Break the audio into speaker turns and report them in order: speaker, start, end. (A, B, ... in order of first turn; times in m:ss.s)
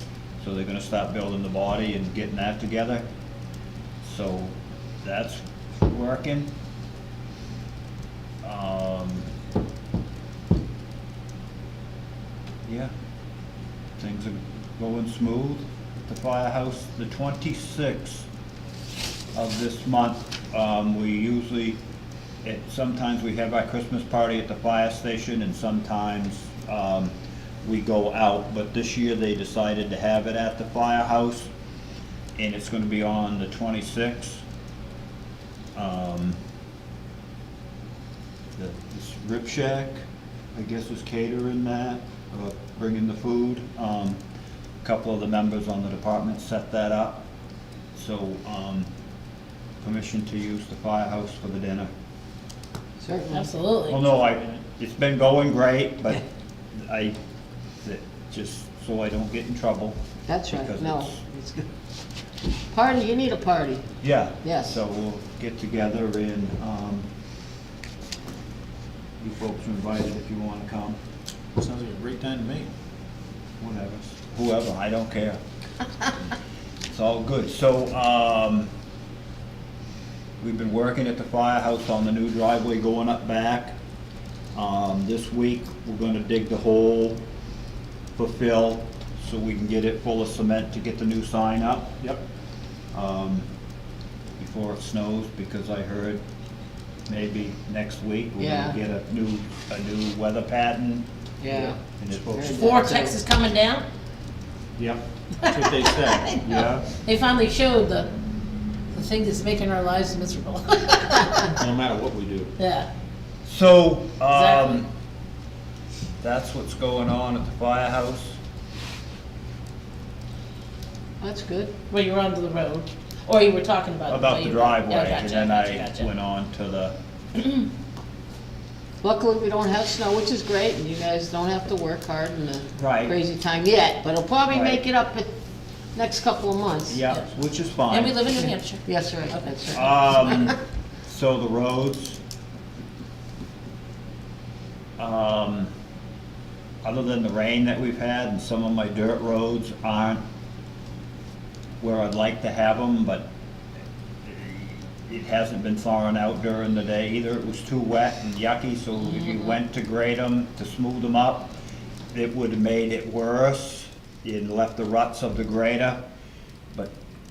0:00.4-0:03.0 A
0:04.0-0:06.5 A
0:08.4-0:09.3 A
0:12.6-0:12.9 A
0:14.0-0:18.3 A
0:19.3-0:21.8 A
0:22.4-0:31.5 A
0:32.4-0:34.4 A
0:35.7-0:36.4 A
0:38.6-0:40.0 A
0:40.5-0:44.2 A
0:44.8-0:47.3 A
0:47.9-0:48.9 A
0:49.8-0:51.9 A
0:53.0-0:53.5 B
0:53.3-0:54.0 C
0:53.9-0:56.2 A
0:56.7-0:57.2 A
0:57.8-1:01.2 A
1:00.3-1:01.6 B
1:02.7-1:03.8 B
1:04.0-1:07.1 A
1:04.4-1:04.8 B
1:09.2-1:11.0 A
1:11.5-1:12.7 D
1:13.6-1:15.4 A
1:16.9-1:18.7 A
1:20.4-1:23.8 A
1:24.5-1:27.2 A
1:28.1-1:31.9 A
1:32.9-1:33.5 A
1:34.4-1:36.2 A
1:37.1-1:41.0 A
1:38.4-1:38.8 B
1:41.4-1:43.1 B
1:42.0-1:42.6 A
1:42.5-1:43.8 C
1:44.8-1:46.9 D
1:45.4-1:48.1 C
1:48.9-1:51.5 C
1:51.6-1:52.5 D
1:52.6-1:52.9 C
1:53.4-1:54.9 A
1:54.3-1:54.8 C
1:56.2-1:58.4 A
2:01.2-2:01.7 B
2:01.9-2:06.1 C
2:04.1-2:06.9 A
2:07.4-2:07.6 C
2:09.0-2:15.3 B
2:12.8-2:13.2 A
2:14.5-2:14.8 A
2:15.9-2:17.0 B
2:16.9-2:18.3 A
2:17.9-2:19.5 C
2:18.4-2:20.5 B
2:19.7-2:22.2 A
2:25.0-2:25.7 A
2:26.8-2:30.2 A
2:31.8-2:33.3 A
2:34.2-2:41.5 A
2:42.1-2:46.0 A